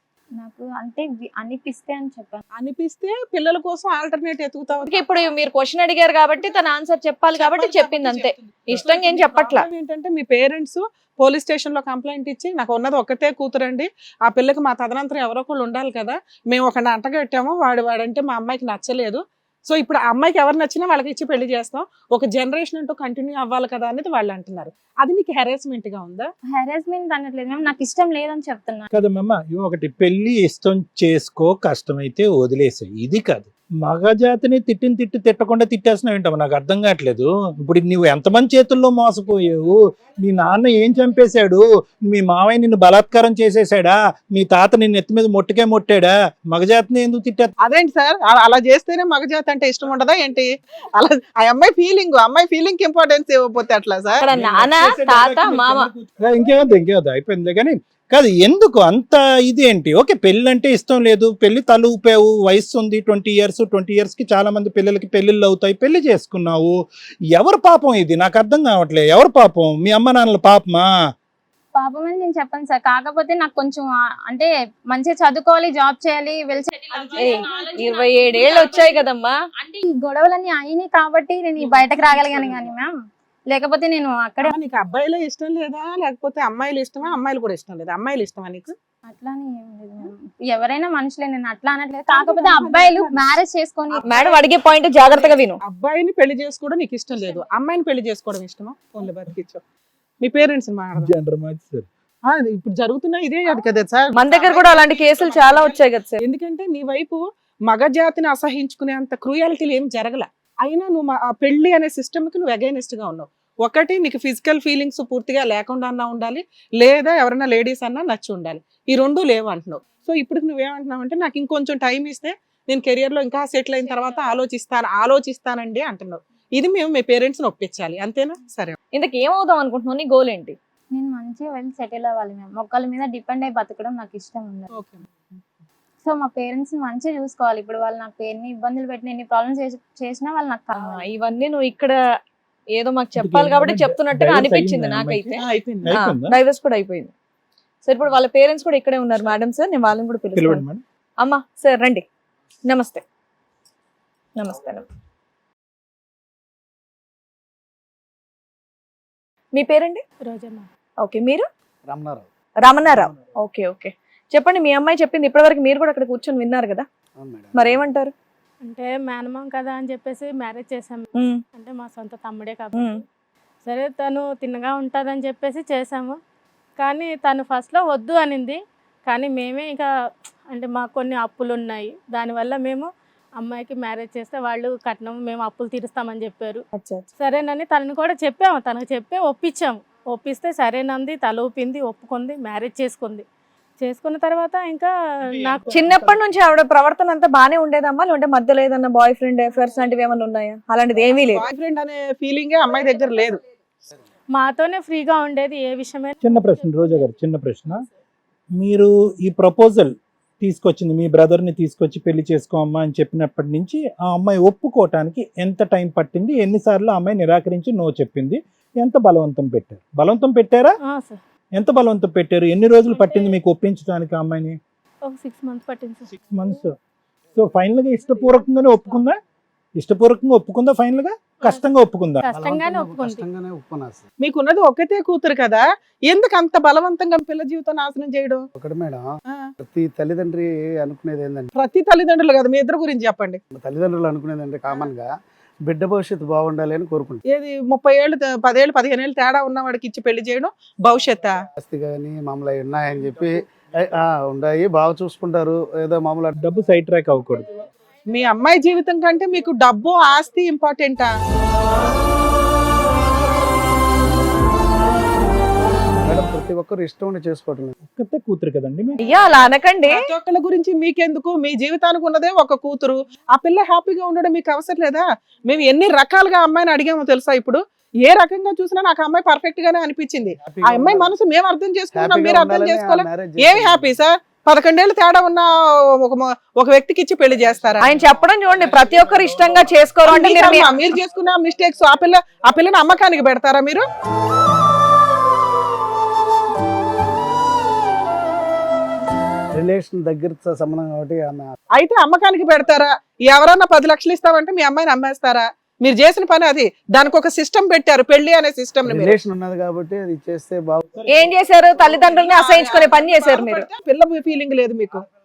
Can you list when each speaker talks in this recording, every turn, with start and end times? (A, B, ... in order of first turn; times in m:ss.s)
0:00.4-0:02.4 A
0:02.5-0:04.9 B
0:04.9-0:09.7 C
0:07.3-0:26.3 B
0:26.5-0:28.9 A
0:28.9-0:47.5 D
0:47.6-0:54.2 B
0:54.2-0:55.9 C
0:54.3-1:06.7 D
1:07.3-1:10.9 D
1:11.8-1:17.5 A
1:17.2-1:19.3 C
1:19.8-1:22.9 A
1:21.6-1:22.6 B
1:23.5-1:24.5 A
1:24.4-1:28.7 B
1:29.1-1:34.1 A
1:32.1-1:33.4 B
1:33.9-1:34.4 B
1:34.0-1:35.6 C
1:35.1-1:39.6 B
1:40.2-1:41.1 B
1:41.0-1:41.9 D
1:42.3-2:08.8 B
1:44.1-1:46.2 C
2:08.9-2:10.6 C
2:10.9-2:14.7 A
2:14.7-2:15.1 B
2:16.0-2:21.0 A
2:20.8-2:22.0 C
2:22.7-2:25.4 C
2:23.2-2:26.4 D
2:25.4-2:25.9 B
2:25.9-2:27.1 C
2:27.8-2:30.6 C
2:30.3-2:30.8 D
2:31.2-2:32.0 C
2:32.6-2:33.0 C
2:34.4-2:34.8 C
2:39.5-2:40.0 C
2:40.2-2:40.7 E
2:41.0-2:41.4 C
2:41.9-2:42.3 F
2:42.6-2:46.8 C
2:42.8-2:43.2 F
2:47.2-2:47.8 F
2:47.5-2:48.1 C
2:48.6-2:52.9 E
2:51.1-2:51.4 C
2:52.7-2:53.0 C
2:53.6-2:56.2 E
2:56.8-2:59.9 E
3:00.5-3:06.6 E
3:06.8-3:07.1 C
3:07.2-3:13.2 E
3:13.8-3:15.8 E
3:15.4-3:16.1 D
3:15.7-3:21.5 C
3:21.3-3:23.4 B
3:24.3-3:27.1 E
3:26.2-3:27.8 D
3:28.6-3:40.8 D
3:40.8-3:41.2 E
3:41.5-3:44.6 D
3:42.9-3:43.3 E
3:45.0-3:46.5 E
3:46.2-3:46.7 D
3:47.3-3:49.2 D
3:48.2-3:48.4 E
3:49.8-3:52.2 D
3:52.2-3:53.2 E
3:52.3-3:54.1 F
3:54.2-3:58.4 B
3:58.6-3:59.1 F
3:59.6-4:01.5 F
4:01.5-4:03.4 B
4:03.5-4:05.1 F
4:05.6-4:07.2 F
4:07.3-4:11.4 B
4:11.6-4:16.4 F
4:16.4-4:17.5 D
4:18.1-4:21.1 B
4:26.0-4:27.8 F
4:27.9-4:29.2 D
4:29.0-4:30.1 C
4:29.9-4:47.9 B
4:40.4-4:41.1 F
4:41.9-4:43.9 F
4:47.8-4:49.9 F
4:47.8-4:50.7 C
4:50.0-4:53.8 B
4:59.5-5:01.5 F
5:01.7-5:09.2 B
5:08.8-5:11.0 F
5:11.0-5:11.3 D
5:11.1-5:13.7 C
5:11.9-5:15.0 B